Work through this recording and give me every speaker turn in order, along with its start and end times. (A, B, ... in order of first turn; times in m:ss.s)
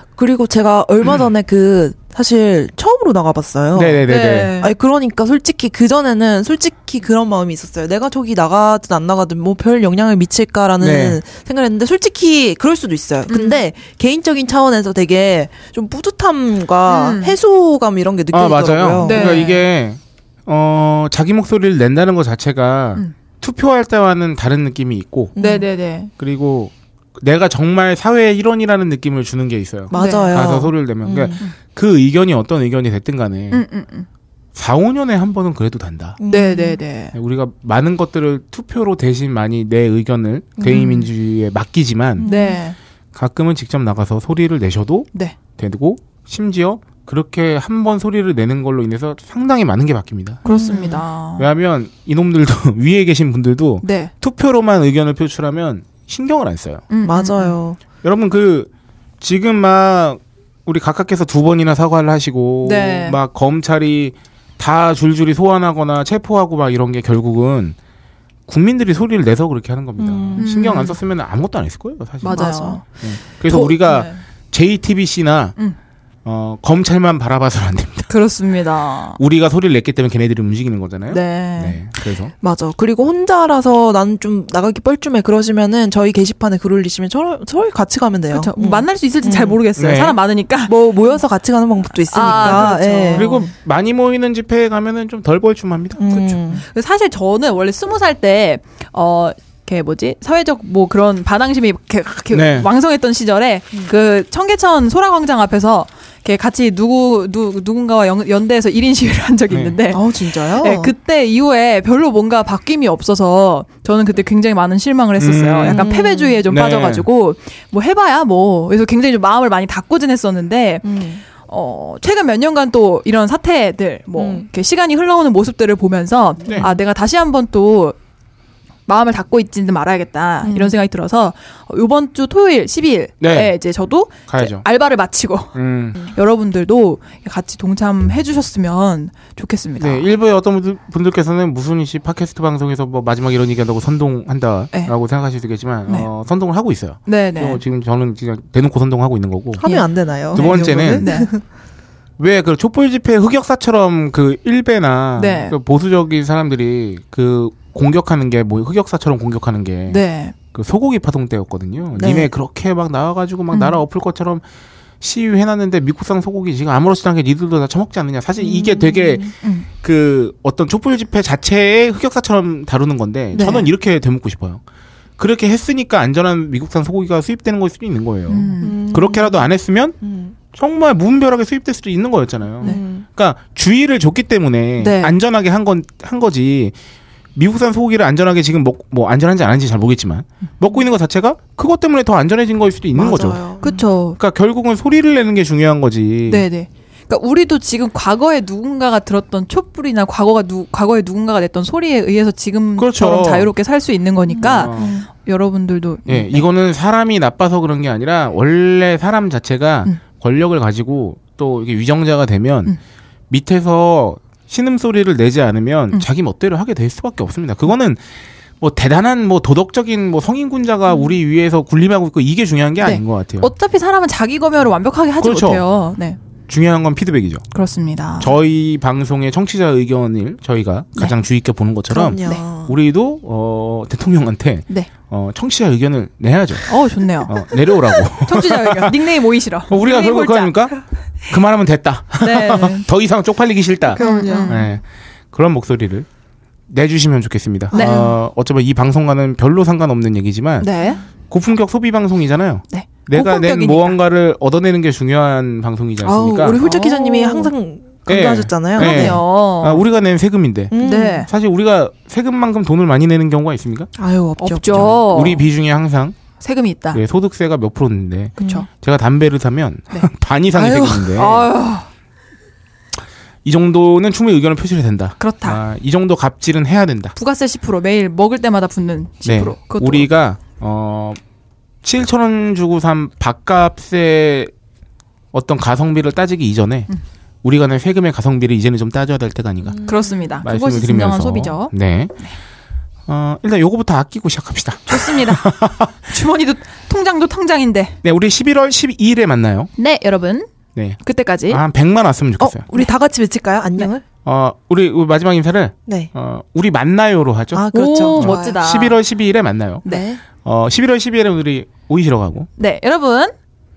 0:00.2-0:04.1 A
0:03.7-0:04.5 B
0:04.1-0:04.7 C
0:04.6-0:19.4 A
0:10.8-0:11.2 B
0:13.3-0:13.6 C
0:16.9-0:17.4 C
0:18.3-0:25.3 B
0:19.0-0:19.6 C
0:25.4-0:25.7 A
0:25.4-0:26.1 C
0:26.2-0:33.6 B
0:29.9-0:31.4 A
0:29.9-0:30.6 C
0:33.5-0:34.1 C
0:34.5-0:36.2 B
0:36.2-0:36.8 A
0:36.3-0:37.1 C
0:37.1-0:42.3 B
0:40.6-0:41.0 A
0:40.6-0:41.0 C
0:42.2-0:42.6 A
0:42.2-0:42.8 C
0:43.1-0:50.4 B
0:50.4-0:51.5 C
0:50.4-0:51.0 A
0:51.4-0:56.8 B
0:53.8-0:54.1 C
0:56.9-0:57.6 C
0:57.0-0:57.8 A
0:58.0-0:58.7 B
0:59.2-1:07.8 B
1:02.6-1:03.2 C
1:08.5-1:15.5 B
1:10.0-1:10.5 A
1:10.4-1:11.0 C
1:12.2-1:12.8 C
1:12.3-1:12.8 A
1:13.5-1:14.2 C
1:16.2-1:18.1 B
1:18.1-1:19.2 C
1:19.2-1:22.3 B
1:21.1-1:21.8 C
1:22.4-1:29.6 A
1:28.3-1:30.7 C
1:29.8-1:30.2 B
1:30.6-1:33.4 A
1:32.1-1:33.4 C
1:32.3-1:36.4 B
1:36.0-1:36.6 A
1:36.6-1:50.0 C
1:42.3-1:42.7 B
1:49.5-1:49.8 B
1:49.9-1:50.9 A
1:50.6-2:08.0 C
1:55.2-1:55.8 B
1:55.7-1:56.4 A
1:56.5-1:57.0 B
2:00.8-2:01.2 A
2:04.1-2:04.4 A
2:08.9-2:20.1 C
2:10.4-2:10.7 A
2:13.2-2:13.6 B
2:14.3-2:14.6 B
2:15.5-2:16.0 B
2:19.8-2:29.6 B
2:27.1-2:27.6 C
2:29.6-2:31.4 A
2:29.6-2:31.3 C
2:30.3-2:31.2 B
2:32.2-2:40.0 B
2:35.2-2:35.5 C
2:39.9-2:40.3 C
2:40.5-2:44.4 B
2:42.0-2:42.3 A
2:43.5-2:43.8 C
2:45.0-2:54.6 B
2:48.4-2:49.3 A
2:49.4-2:49.7 C
2:53.3-2:53.7 C
2:55.2-3:00.0 B
2:58.3-2:58.8 C
2:58.6-2:59.5 A
3:00.0-3:00.3 A
3:00.5-3:06.7 B
3:02.6-3:03.0 A
3:04.8-3:05.2 C
3:07.3-3:13.4 B
3:12.9-3:13.8 A
3:13.6-3:14.2 C
3:14.2-3:16.5 B
3:16.3-3:26.4 C
3:22.8-3:23.5 B
3:24.3-3:25.0 A
3:24.4-3:24.9 B
3:26.1-3:32.8 B
3:33.3-3:38.0 B
3:38.6-3:43.5 B
3:42.8-3:46.2 C
3:45.2-3:45.6 B
3:46.5-3:47.4 B
3:47.5-3:48.3 C
3:48.2-3:59.1 B
3:51.9-3:52.8 A
3:56.7-3:57.3 C
3:58.1-4:00.8 C
3:59.7-4:06.1 B
4:02.2-4:02.8 C
4:04.0-4:04.6 A
4:04.0-4:04.6 C
4:06.7-4:10.7 B
4:07.7-4:08.1 A
4:07.7-4:08.1 C
4:10.6-4:11.0 C
4:11.3-4:16.6 B
4:12.7-4:14.0 C
4:16.0-4:19.2 A
4:16.6-4:17.5 C
4:18.1-4:23.9 B
4:18.7-4:19.8 C
4:20.7-4:21.3 A
4:20.8-4:21.3 C
4:24.0-4:25.0 A
4:24.4-4:25.4 C
4:24.7-4:26.2 B
4:26.4-4:27.0 C
4:26.9-4:31.4 B
4:28.4-4:28.6 C
4:28.4-4:28.6 A
4:30.5-4:31.2 A
4:31.1-4:31.8 C
4:33.4-4:37.1 B
4:35.2-4:35.6 C
4:37.2-4:40.1 C
4:39.2-4:41.2 B
4:41.8-4:44.5 B
4:45.3-4:46.9 B
4:47.4-4:49.9 B
4:49.7-4:50.4 A
4:49.8-4:52.4 C
4:50.4-4:52.1 B
4:53.1-4:55.9 B
4:54.9-4:55.4 C
4:56.1-4:58.0 C
4:58.0-4:59.7 B
4:59.8-5:00.5 C
5:00.7-5:02.6 B
5:01.0-5:01.6 C
5:02.4-5:04.0 A
5:04.2-5:09.8 B
5:07.5-5:08.6 A
5:07.7-5:09.0 C
5:09.8-5:10.2 A
5:10.4-5:12.5 B
5:12.6-5:13.3 C